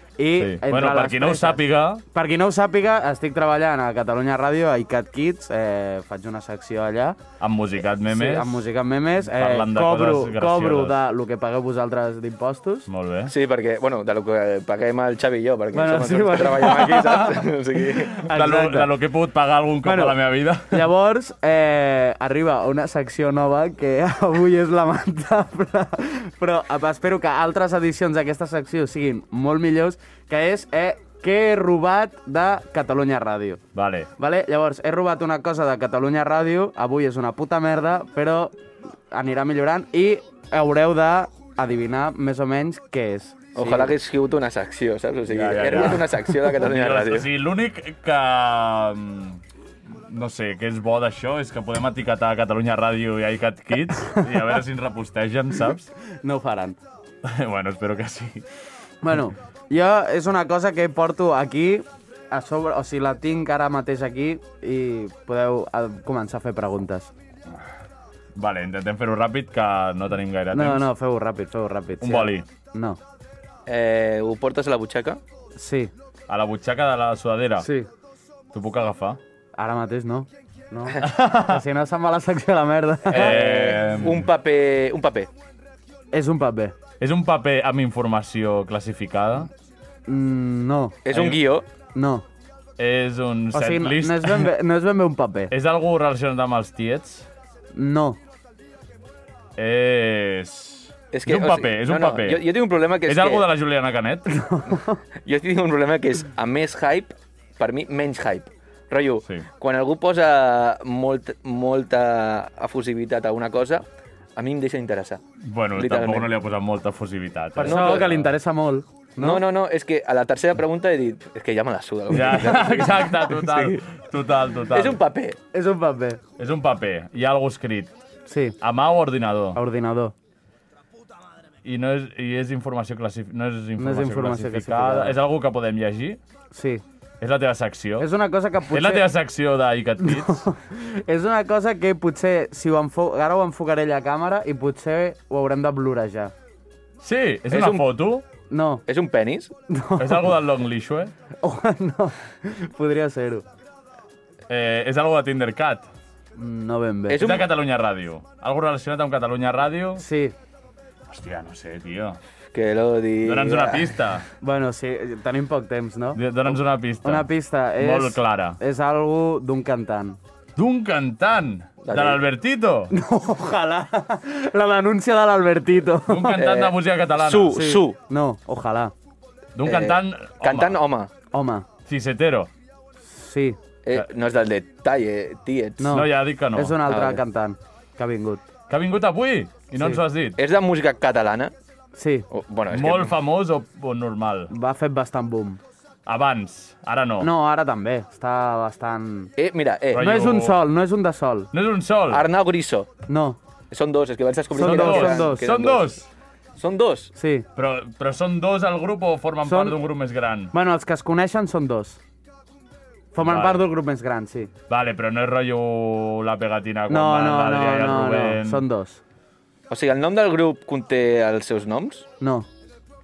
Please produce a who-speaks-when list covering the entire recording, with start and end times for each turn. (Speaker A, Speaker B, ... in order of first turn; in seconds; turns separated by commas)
Speaker A: 0.2-7.2, Speaker B: 0.4-2.0, Speaker B: 7.4-8.6, Speaker A: 8.1-12.9, Speaker B: 9.3-10.9, Speaker B: 12.9-13.3, Speaker C: 13.3-18.2, Speaker A: 15.7-17.4, Speaker A: 18.2-18.9, Speaker B: 18.3-20.8, Speaker A: 19.8-33.6, Speaker B: 33.7-34.1, Speaker A: 34.2-38.5, Speaker A: 39.1-43.9, Speaker C: 43.5-47.3, Speaker B: 45.3-49.4, Speaker B: 50.1-55.9, Speaker A: 56.2-56.8, Speaker B: 57.2-58.4, Speaker A: 59.0-67.1, Speaker B: 68.3-70.9, Speaker A: 70.5-73.0, Speaker B: 72.0-72.5, Speaker C: 73.7-75.2, Speaker A: 75.5-75.9, Speaker B: 76.3-77.7, Speaker A: 77.6-77.9, Speaker B: 78.5-79.2, Speaker A: 79.5-83.4, Speaker B: 81.0-81.6, Speaker C: 83.1-85.3, Speaker B: 83.1-84.3, Speaker A: 86.1-86.7, Speaker B: 87.0-89.5, Speaker A: 90.1-91.0, Speaker C: 91.0-91.6, Speaker B: 91.1-91.4, Speaker A: 91.9-92.2, Speaker B: 92.8-94.5, Speaker A: 93.5-95.5, Speaker B: 95.5-97.3, Speaker A: 97.7-98.2, Speaker B: 99.6-102.5, Speaker C: 101.1-103.5, Speaker B: 103.0-104.4, Speaker A: 104.3-105.0, Speaker C: 105.2-113.8, Speaker C: 114.3-115.2, Speaker B: 115.4-118.3, Speaker C: 115.7-116.3, Speaker A: 117.6-119.4, Speaker C: 117.6-118.0, Speaker C: 119.2-123.8, Speaker B: 122.1-125.0, Speaker C: 124.7-125.4, Speaker A: 125.5-126.2, Speaker B: 126.4-127.9, Speaker A: 128.3-128.6, Speaker B: 128.6-129.6, Speaker A: 129.5-130.1, Speaker B: 131.6-136.2, Speaker A: 133.8-135.2, Speaker A: 136.5-136.8, Speaker B: 137.2-138.1, Speaker A: 138.0-139.0, Speaker B: 138.7-140.5, Speaker A: 140.0-146.3, Speaker B: 147.0-148.2, Speaker C: 147.5-147.9, Speaker A: 148.5-148.8, Speaker C: 148.9-149.5, Speaker A: 149.7-150.3, Speaker B: 150.0-151.1, Speaker A: 151.4-153.4, Speaker B: 154.5-155.9, Speaker A: 156.3-157.2, Speaker C: 157.1-157.5, Speaker B: 157.2-160.0, Speaker A: 160.0-160.3, Speaker B: 161.1-162.2, Speaker C: 162.5-163.9, Speaker B: 163.2-164.2, Speaker A: 164.4-166.2, Speaker B: 166.1-168.6, Speaker A: 167.0-170.2, Speaker B: 170.6-172.9, Speaker C: 171.8-172.2, Speaker A: 172.9-176.4, Speaker B: 176.1-177.6, Speaker C: 176.3-177.9, Speaker A: 177.5-178.9, Speaker B: 179.6-180.8, Speaker C: 179.6-181.1, Speaker A: 181.3-181.7, Speaker B: 181.9-182.5, Speaker A: 183.1-183.6, Speaker C: 183.8-185.9, Speaker A: 185.8-188.4, Speaker B: 185.8-186.8, Speaker C: 186.9-187.2, Speaker B: 188.7-190.4, Speaker A: 189.8-190.0, Speaker C: 190.4-191.5, Speaker A: 191.9-192.2, Speaker C: 192.3-193.1, Speaker B: 192.7-194.5, Speaker A: 194.5-195.6, Speaker B: 196.1-197.3, Speaker A: 197.2-199.3, Speaker C: 199.4-200.1, Speaker B: 199.9-200.6, Speaker A: 199.9-201.5, Speaker B: 201.5-202.3, Speaker C: 202.1-202.9, Speaker A: 203.1-203.4, Speaker C: 203.7-205.9, Speaker A: 204.5-205.4, Speaker B: 204.6-206.1, Speaker C: 206.6-207.1, Speaker A: 207.2-207.5, Speaker B: 207.6-210.5, Speaker A: 209.4-209.8, Speaker A: 210.5-212.0, Speaker A: 213.1-214.5, Speaker B: 213.2-213.6, Speaker B: 214.7-218.6, Speaker A: 216.9-219.0, Speaker C: 219.7-222.0, Speaker A: 222.2-222.5